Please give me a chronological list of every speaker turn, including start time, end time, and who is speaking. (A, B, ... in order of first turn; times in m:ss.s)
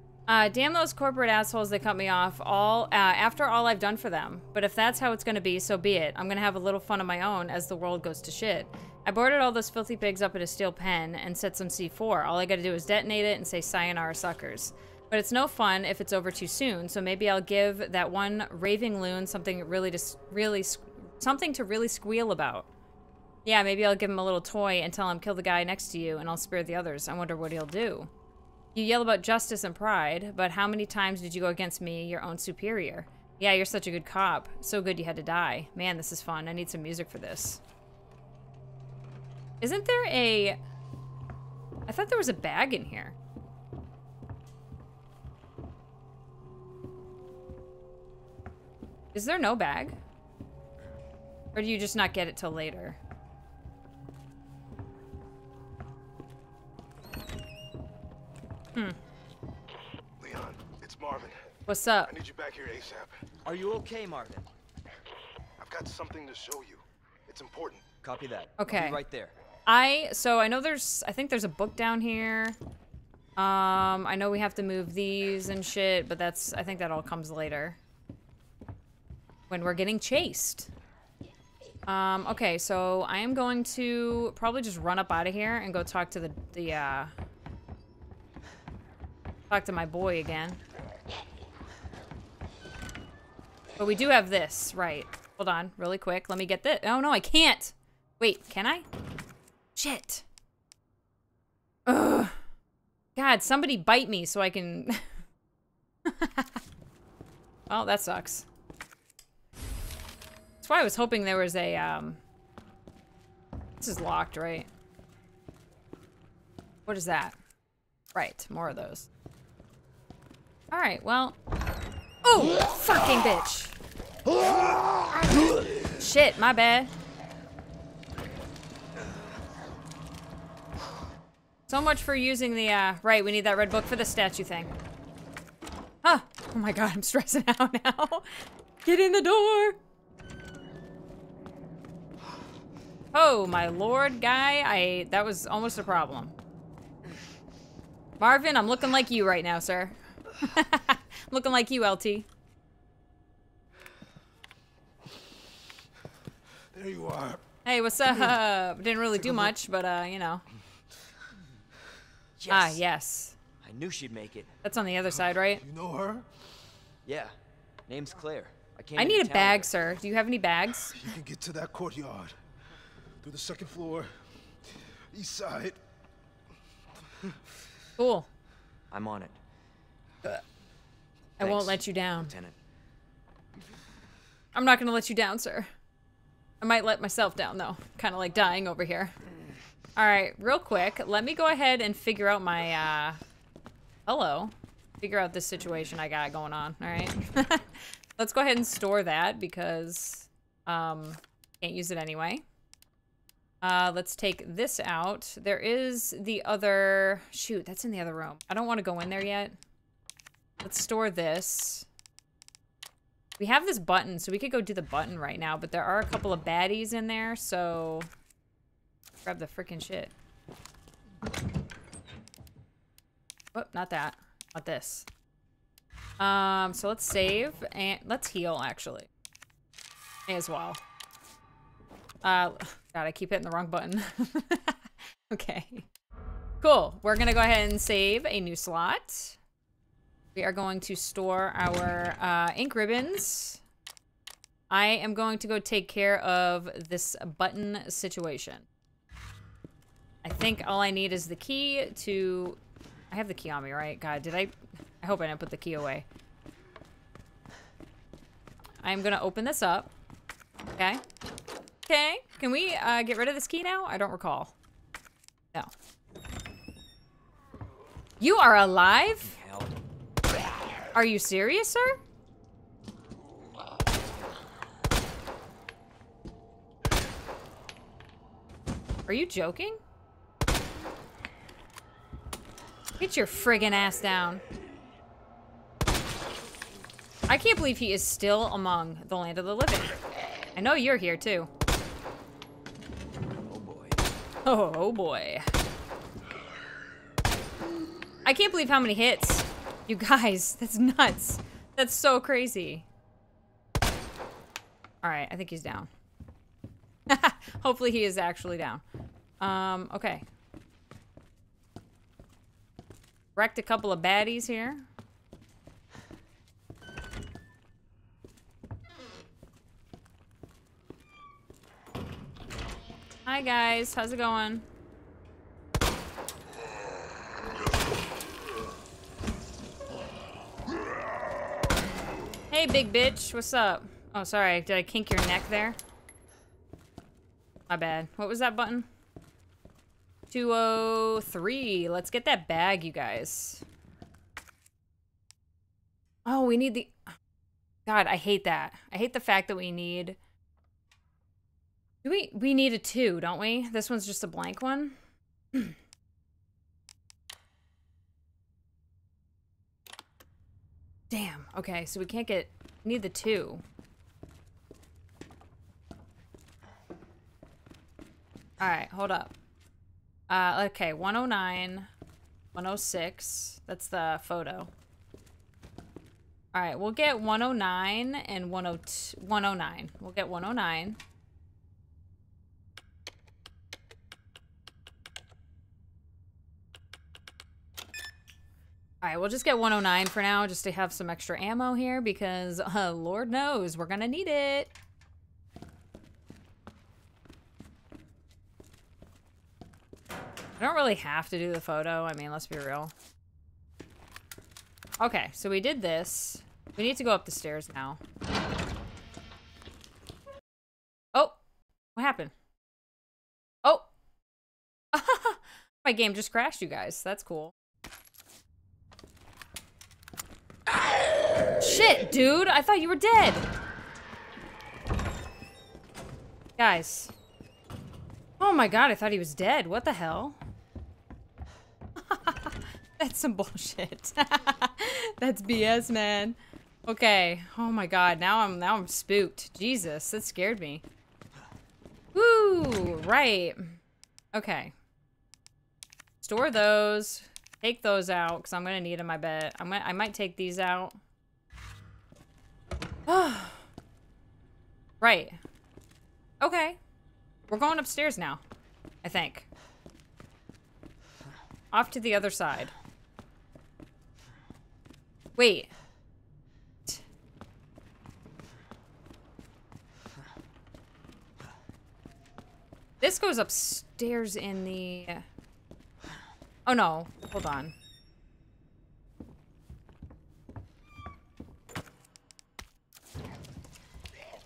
0:00.3-0:22.7 A
0:23.4-0:28.1 A
0:28.8-0:37.6 A
0:39.6-0:40.6 A
0:41.9-0:43.2 A
0:49.1-0:50.0 A
0:51.6-0:53.0 A
1:00.2-1:01.5 B
1:01.7-1:02.1 A
1:02.0-1:03.2 B
1:03.4-1:04.5 C
1:05.6-1:07.9 B
1:08.0-1:09.4 C
1:08.6-1:09.0 A
1:09.7-1:12.6 A
1:13.4-1:17.8 A
1:19.5-1:20.7 A
1:21.9-1:27.1 A
1:29.5-1:30.6 A
1:33.8-1:38.9 A
1:39.8-1:40.2 A
1:41.9-1:42.4 A
1:43.2-1:45.0 A
1:46.0-1:46.6 A
1:47.7-1:48.5 A
1:50.6-1:52.2 A
1:53.8-1:54.7 A
1:56.9-1:57.4 A
1:58.2-1:59.1 A
2:00.7-2:01.4 A
2:02.2-2:03.8 A
2:06.0-2:06.9 A
2:11.7-2:14.7 A
2:16.0-2:18.3 A
2:18.8-2:19.8 A
2:23.1-2:26.4 A
2:28.2-2:32.3 A
2:36.7-2:37.4 B
2:37.6-2:40.4 A
2:42.4-2:42.8 C
2:42.5-2:43.4 A
2:43.6-2:44.5 C
2:44.6-2:45.6 A
2:45.6-2:46.3 B
2:47.0-2:47.4 C
2:47.9-2:49.7 C
2:49.0-2:51.0 A
2:50.9-2:52.4 B
2:53.2-2:54.2 B
2:55.1-2:55.8 B
2:58.0-2:58.3 A
2:58.9-2:59.4 C
3:01.4-3:02.6 C
3:01.4-3:02.3 A
3:04.5-3:05.7 A
3:06.6-3:09.1 A
3:10.0-3:13.2 A
3:14.1-3:22.4 A
3:23.6-3:29.6 A
3:30.6-3:31.9 A
3:33.4-3:38.1 A
3:39.2-3:40.1 A
3:43.5-3:45.1 A
3:46.2-3:49.1 A
3:50.3-3:50.8 A
3:52.2-3:55.9 A
3:56.6-3:59.4 A
4:00.4-4:03.6 A
4:04.7-4:08.7 A
4:10.2-4:12.6 A
4:13.1-4:16.1 A
4:18.8-4:19.9 A
4:20.8-4:21.0 A
4:21.9-4:24.5 A
4:28.2-4:29.4 A
4:29.2-4:29.7 C
4:30.9-4:32.0 A
4:39.1-4:39.8 A
4:43.0-4:44.4 A
4:47.3-4:50.0 A
4:50.6-4:51.5 A
4:53.3-4:54.0 C
4:54.4-4:55.5 A
4:58.2-5:02.9 A
5:05.0-5:05.9 A
5:07.1-5:08.8 A
5:09.4-5:10.2 A
5:13.4-5:14.9 A
5:23.3-5:24.7 A
5:32.5-5:35.8 A
5:37.7-5:38.9 A
5:40.3-5:43.6 A
5:46.3-5:47.0 A
5:47.9-5:50.2 A
5:52.0-5:55.0 A
6:01.1-6:03.6 A
6:08.6-6:09.3 A
6:10.3-6:11.9 A
6:12.6-6:14.7 A
6:16.5-6:21.0 A
6:29.0-6:34.7 A
6:40.6-6:42.9 A
6:45.0-6:48.0 A
6:52.0-6:52.3 A
6:54.9-6:57.5 A
7:01.6-7:03.5 A
7:06.6-7:07.1 A
7:08.4-7:10.4 A
7:12.1-7:20.8 A
7:22.1-7:23.8 A
7:24.3-7:24.7 A
7:26.2-7:31.0 A
7:33.1-7:33.6 A
7:35.0-7:35.4 A
7:36.4-7:36.8 A
7:37.5-7:38.4 A
7:39.0-7:39.5 A
7:41.7-7:42.7 A
7:45.4-7:45.7 A
7:53.0-7:55.2 A
7:56.7-7:57.8 A